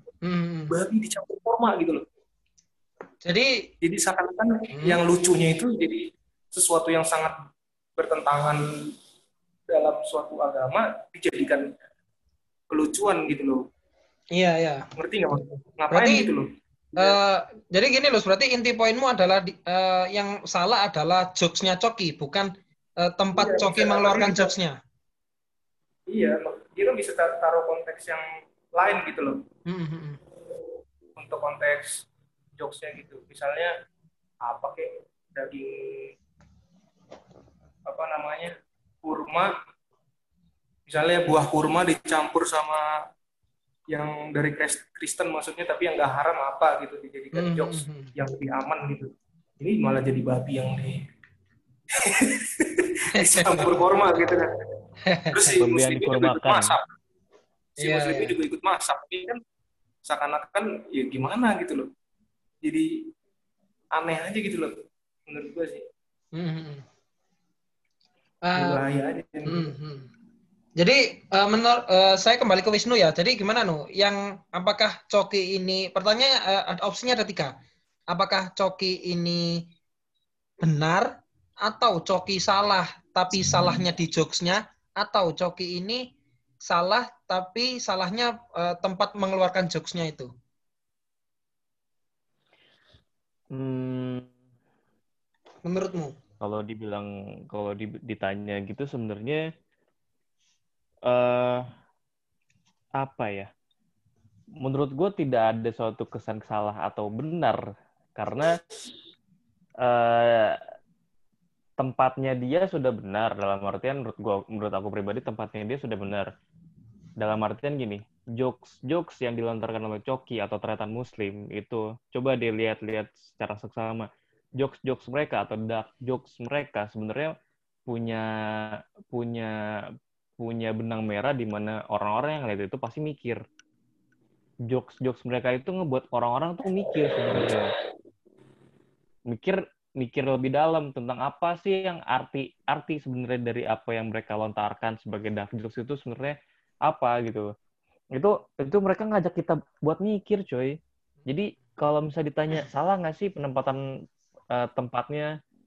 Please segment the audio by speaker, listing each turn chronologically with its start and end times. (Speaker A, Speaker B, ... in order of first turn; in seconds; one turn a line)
Speaker A: 0.2-0.8
Speaker B: 0.7-2.0
Speaker A: 3.2-3.7
Speaker B: 3.8-7.4
Speaker A: 4.7-5.0
Speaker B: 8.0-8.9
Speaker B: 9.7-11.7
Speaker B: 12.7-13.7
Speaker A: 14.3-14.9
Speaker B: 15.0-17.2
Speaker A: 15.9-16.3
Speaker A: 17.0-24.8
Speaker B: 23.4-24.5
Speaker B: 26.1-28.2
Speaker B: 28.8-29.4
Speaker A: 29.7-30.2
Speaker B: 31.2-32.0
Speaker B: 32.6-33.7
Speaker B: 34.4-36.1
Speaker B: 37.9-38.5
Speaker B: 39.0-39.5
Speaker B: 40.9-42.9
Speaker B: 43.9-51.1
Speaker A: 47.3-48.1
Speaker B: 51.9-54.5
Speaker A: 53.1-53.9
Speaker A: 55.0-55.5
Speaker B: 55.3-56.8
Speaker C: 55.6-56.8
Speaker B: 57.8-59.4
Speaker A: 57.8-58.4
Speaker B: 60.0-61.9
Speaker B: 62.6-63.0
Speaker B: 63.9-64.8
Speaker B: 65.3-65.8
Speaker A: 66.3-66.8
Speaker A: 68.4-68.9
Speaker B: 68.5-69.7
Speaker A: 69.5-70.1
Speaker A: 70.8-77.5
Speaker A: 78.1-79.6
Speaker A: 80.6-81.1
Speaker A: 81.6-86.0
Speaker A: 86.6-90.3
Speaker C: 93.5-94.3
Speaker A: 95.7-96.2
Speaker C: 96.4-99.4
Speaker C: 101.1-101.7
Speaker C: 103.0-103.5
Speaker C: 104.6-107.6
Speaker C: 108.2-108.6
Speaker C: 109.8-110.6
Speaker C: 111.8-116.3
Speaker C: 117.2-124.1
Speaker C: 124.6-127.3
Speaker C: 127.9-129.5
Speaker C: 130.4-133.4
Speaker C: 134.7-137.7
Speaker C: 139.3-146.4
Speaker C: 146.9-147.5
Speaker C: 148.2-153.8
Speaker C: 154.5-155.3